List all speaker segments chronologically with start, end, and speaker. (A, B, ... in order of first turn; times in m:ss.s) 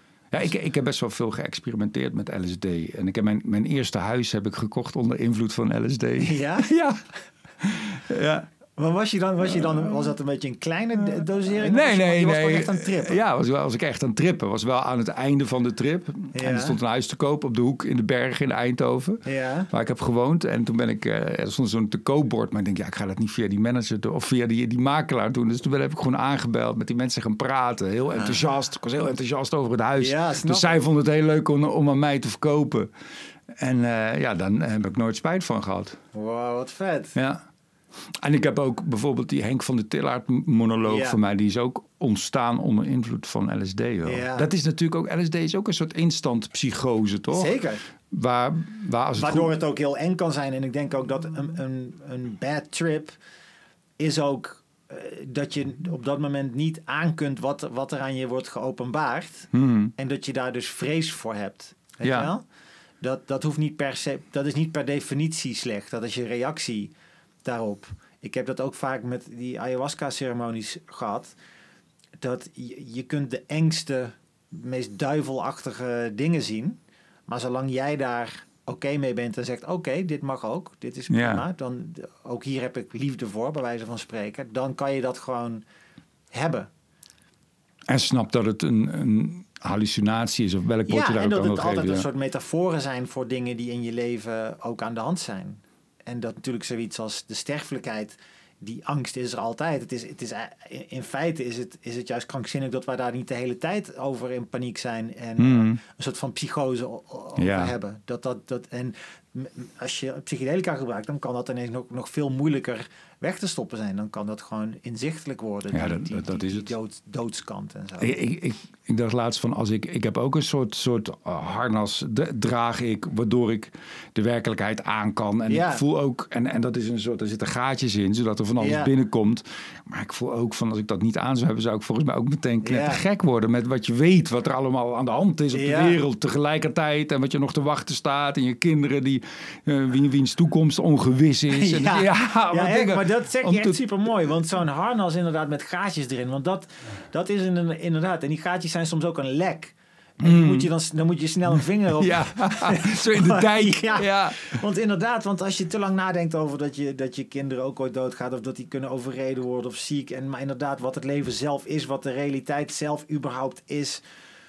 0:00.3-0:07.0 A
0:06.2-0:06.7 B
0:07.6-0:08.5 A
0:08.8-0:13.2 B
0:09.4-0:09.9 A
0:11.0-0:32.9 A
0:16.3-0:16.8 B
0:19.3-0:19.7 B
0:28.1-0:28.4 B
0:30.0-0:30.8 B
0:33.6-0:36.0 A
0:36.1-0:37.2 B
0:37.2-0:37.4 A
0:38.2-0:47.5 A
0:40.8-0:41.2 B
0:44.0-0:44.5 B
0:47.3-0:47.8 B
0:48.1-0:49.5 A
0:49.2-0:53.2 B
0:54.0-1:02.4 B
0:59.5-0:59.9 A
1:02.0-1:02.3 A
1:03.0-1:06.9 B
1:07.4-1:11.4 B
1:12.2-1:25.6 B
1:21.1-1:21.4 A
1:26.3-1:26.7 B
1:27.9-1:32.1 A
1:30.9-1:58.2 B
1:45.4-1:45.8 A
1:47.4-1:47.7 A
1:55.7-1:56.7 A
1:58.0-2:23.8 A
2:05.5-2:05.8 B
2:08.6-2:08.9 B
2:12.6-2:13.0 B
2:15.5-2:16.0 B
2:21.5-2:44.0 B
2:30.2-2:30.7 A
2:32.0-2:34.6 A